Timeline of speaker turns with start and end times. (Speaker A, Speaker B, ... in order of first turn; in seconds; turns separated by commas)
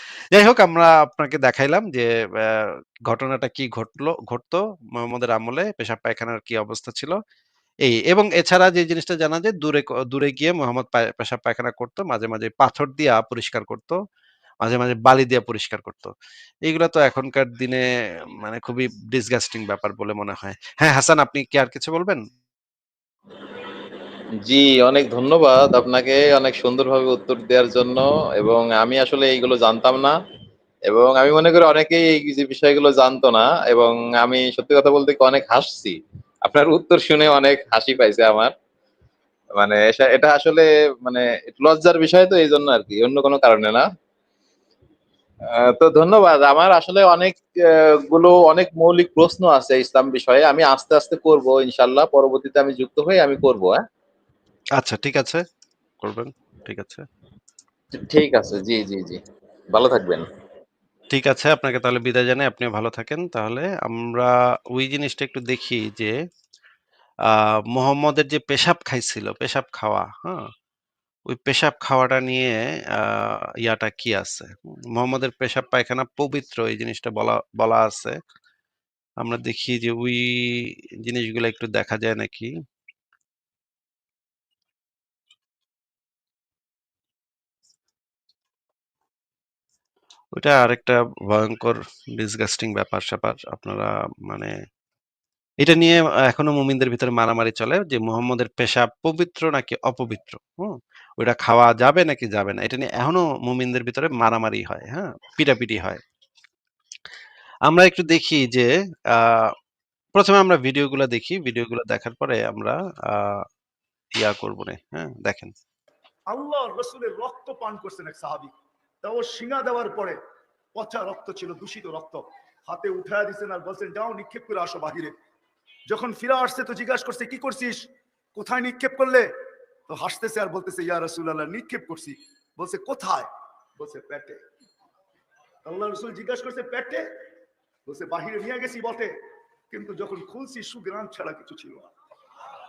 Speaker A: 0.3-7.2, Speaker A: 7.8-14.0, Speaker A: 14.6-16.1, Speaker A: 16.7-17.9, Speaker A: 18.4-22.2, Speaker B: 24.4-30.2, Speaker B: 30.9-38.5, Speaker B: 39.6-43.9, Speaker B: 45.6-53.8, Speaker A: 54.8-55.4, Speaker A: 56.0-57.1, Speaker B: 58.0-59.2, Speaker B: 59.7-60.3, Speaker A: 61.1-66.2, Speaker A: 67.3-70.5, Speaker A: 71.3-78.2, Speaker A: 79.2-82.5, Speaker A: 90.3-94.5, Speaker A: 95.6-106.0, Speaker A: 107.7-109.5, Speaker A: 110.2-113.5, Speaker A: 114.2-115.5, Speaker C: 116.3-118.5, Speaker C: 119.0-120.2, Speaker C: 120.8-125.1, Speaker C: 125.9-129.3, Speaker C: 129.9-134.4, Speaker C: 135.7-137.1, Speaker C: 137.9-139.2, Speaker C: 139.7-141.9